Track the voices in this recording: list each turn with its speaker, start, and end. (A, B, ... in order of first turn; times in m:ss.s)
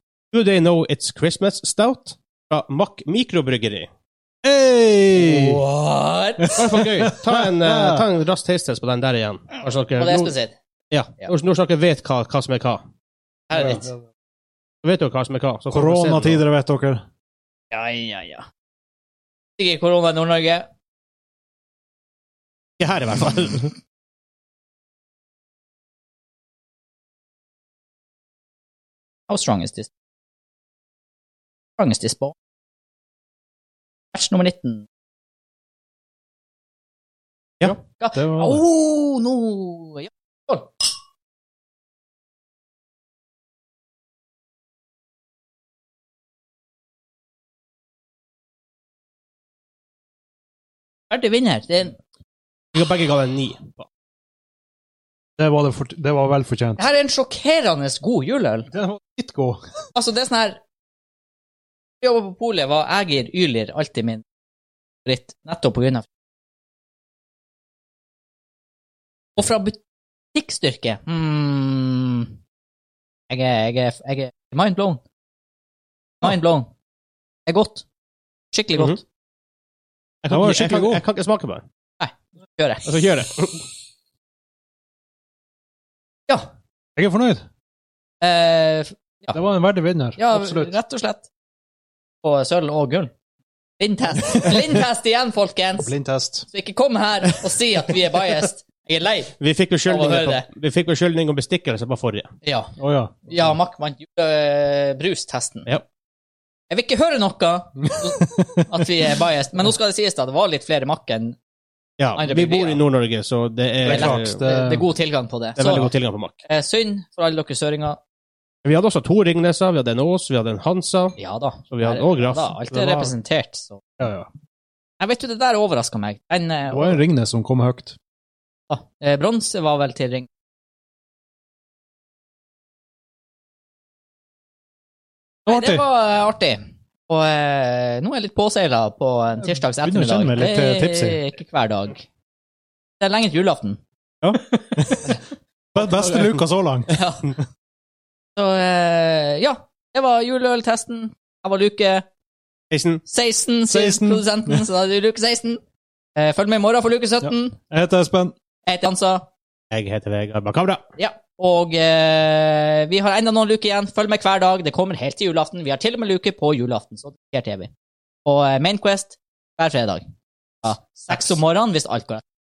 0:00.3-0:03.9 A
0:04.4-0:05.6 B
0:05.1-0:06.6 C
0:06.4-0:08.1 B
0:06.6-0:10.3 A
0:10.0-0:10.6 C
0:10.9-0:12.8 A
0:13.5-0:13.9 C
0:13.5-0:14.0 B
0:14.8-0:16.4 A
0:15.7-0:17.0 B
0:17.7-0:18.5 C
0:19.6-0:20.7 C
0:22.8-0:23.8 A
0:29.3-0:29.9 C
0:31.8-0:32.4 C
0:34.1-0:34.9 C
0:37.6-0:38.6 B
0:37.8-0:40.9 C
0:51.1-0:52.0 C
0:52.7-0:53.9 A
0:55.4-0:56.8 B
0:56.8-0:58.7 C
0:58.7-0:59.6 B
1:00.0-1:00.6 C
1:02.0-1:04.2 C
1:05.0-1:06.1 C
1:09.4-1:09.8 C
1:10.3-1:12.3 C
1:13.3-1:15.0 C
1:16.2-1:16.7 C
1:17.5-1:17.8 C
1:18.5-1:19.0 C
1:20.2-1:21.6 A
1:20.3-1:21.0 B
1:22.0-1:23.0 C
1:22.8-1:23.6 A
1:27.0-1:27.4 B
1:28.2-1:29.4 C
1:29.3-1:30.7 B
1:30.2-1:31.3 C
1:32.2-1:33.1 C
1:33.8-1:35.9 C
1:35.8-1:36.5 B
1:36.5-1:39.4 C
1:39.4-1:42.3 A
1:39.9-1:40.5 C
1:42.4-1:42.8 C
1:42.8-1:43.5 B
1:43.3-1:45.7 C
1:46.7-1:51.4 C
1:47.8-1:48.9 B
1:52.0-1:54.4 A
1:52.2-1:52.8 C
1:53.8-1:54.9 B
1:53.9-1:55.9 C
1:55.6-1:56.4 A
1:55.6-1:55.9 B
1:56.5-1:58.0 C
1:58.6-2:01.2 A
2:01.2-2:03.8 C
2:01.7-2:02.6 A
2:02.7-2:03.1 B
2:04.0-2:04.3 B
2:05.0-2:07.0 C
2:06.7-2:08.0 B
2:08.7-2:10.3 C
2:15.5-2:15.8 B
2:15.5-2:22.0 C
2:19.4-2:21.2 B
2:23.0-2:23.8 C
2:24.2-2:25.2 B
2:24.4-2:25.2 C
2:25.8-2:26.9 B
2:25.8-2:26.4 A
2:26.9-2:27.3 C
2:28.4-2:32.1 C
2:32.7-2:33.0 A
2:33.1-2:35.6 C
2:33.7-2:34.6 B
2:36.2-2:37.6 C
2:37.2-2:38.3 B
2:38.6-2:39.3 C
2:39.7-2:40.8 A
2:41.0-2:47.7 C
2:48.2-2:50.1 C
2:50.6-2:52.2 C